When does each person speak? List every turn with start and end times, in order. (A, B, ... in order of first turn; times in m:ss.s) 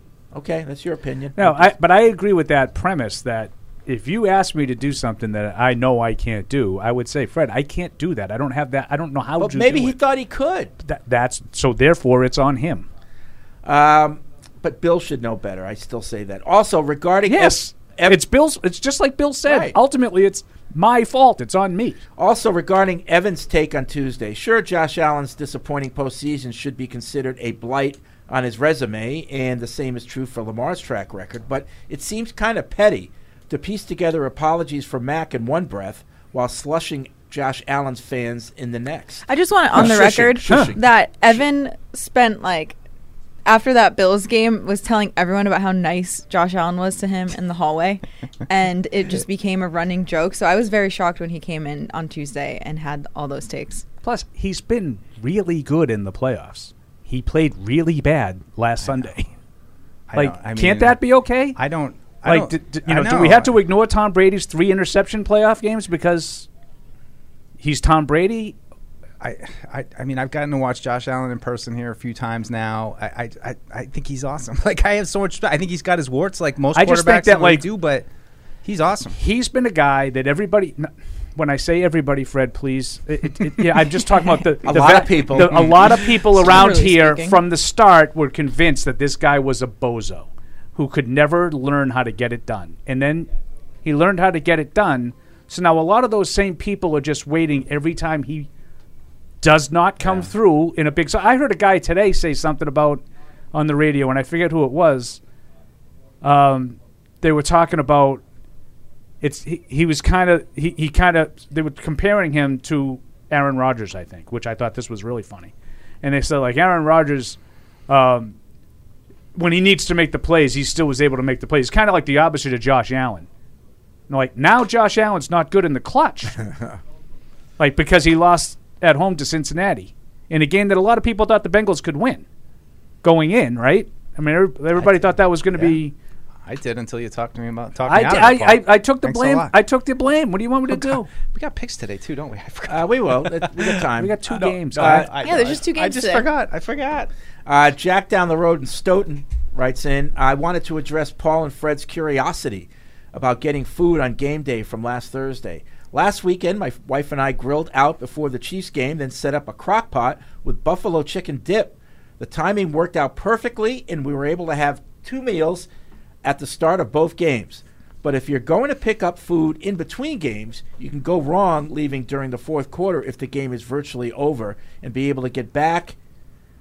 0:00.3-0:01.7 A
0:01.4-0:10.0 B
0:09.4-0:10.7 A
0:10.8-0:12.9 B
0:13.6-0:18.2 A
0:17.3-0:22.0 B
0:19.4-0:19.7 A
0:22.2-0:40.8 A
0:39.3-0:42.8 C
0:40.4-0:40.7 B
0:43.4-0:53.8 C
0:54.0-0:59.3 B
0:58.8-0:59.1 D
1:00.1-1:01.0 D
1:00.2-1:01.6 B
1:01.6-1:03.6 D
1:02.2-1:06.5 B
1:07.6-1:08.6 B
1:09.2-1:18.1 D
1:16.7-1:17.6 B
1:18.6-1:19.2 D
1:19.2-1:33.3 B
1:24.6-1:26.2 A
1:26.4-1:27.4 C
1:33.8-1:38.5 B
1:39.4-1:45.2 B
1:40.0-1:40.3 D
1:46.2-1:48.2 B
1:49.2-1:55.5 B
1:56.0-1:58.4 B
1:59.4-2:03.3 B
2:04.1-2:06.4 B
2:06.4-2:06.7 A
2:07.6-2:12.2 B
2:13.0-2:15.9 B
2:14.8-2:15.8 D
2:16.4-2:19.5 D
2:17.9-2:21.1 B
2:20.7-2:23.7 D
2:22.7-2:25.2 A
2:24.0-2:25.1 B
2:24.4-2:27.1 D
2:25.2-2:26.3 C
2:27.4-2:45.7 A
2:46.2-2:56.0 A